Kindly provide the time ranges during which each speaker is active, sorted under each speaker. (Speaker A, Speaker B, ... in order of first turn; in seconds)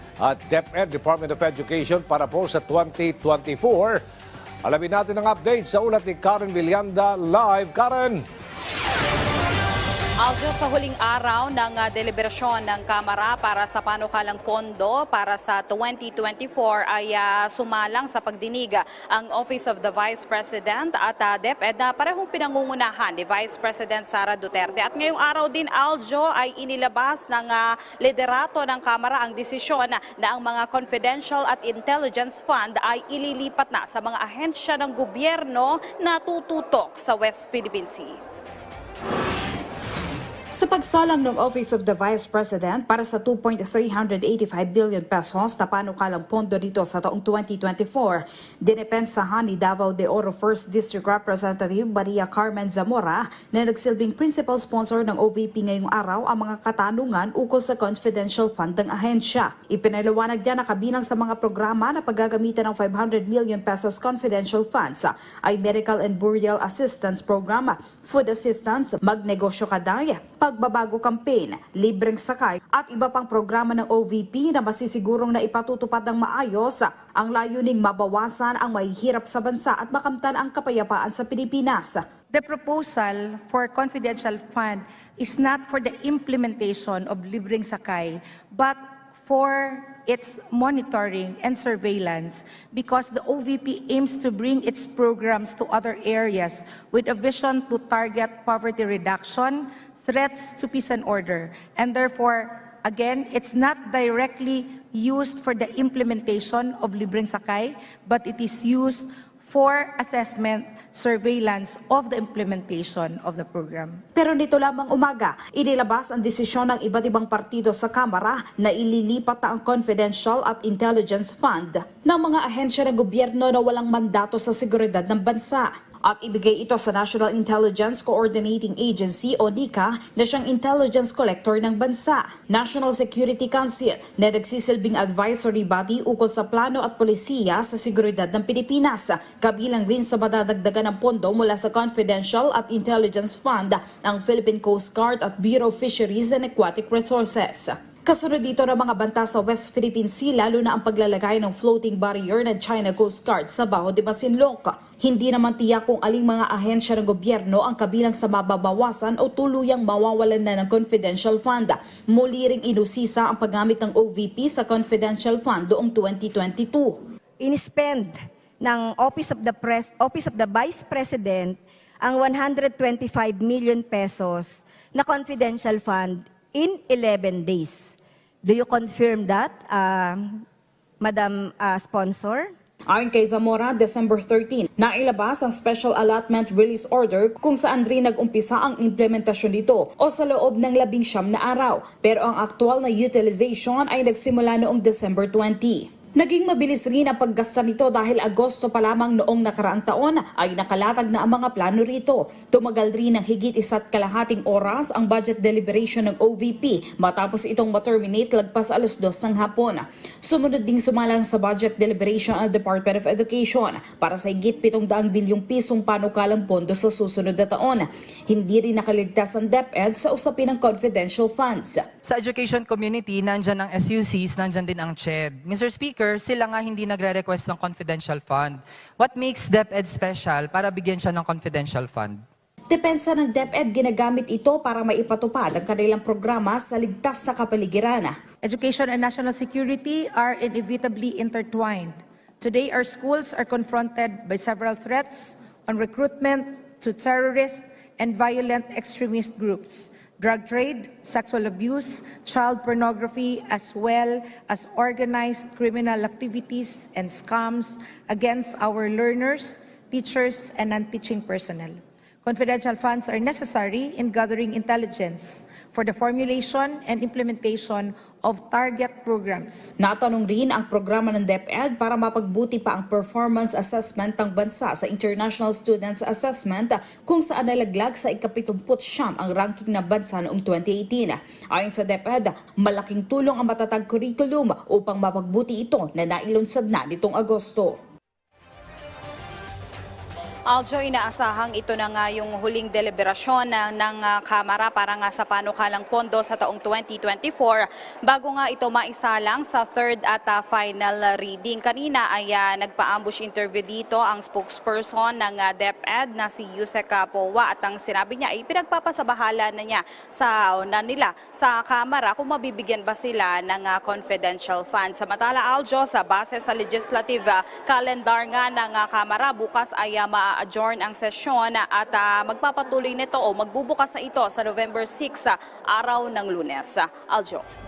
Speaker A: 0.3-3.9, 4.7-8.1
Speaker B: 10.2-38.2, 290.5-327.4
Speaker C: 40.5-82.0, 114.2-167.0, 182.9-221.8, 232.7-238.1, 269.8-287.7
Speaker D: 82.3-114.0, 238.4-269.7
Speaker E: 167.4-180.4, 181.0-182.5
Speaker F: 222.0-232.2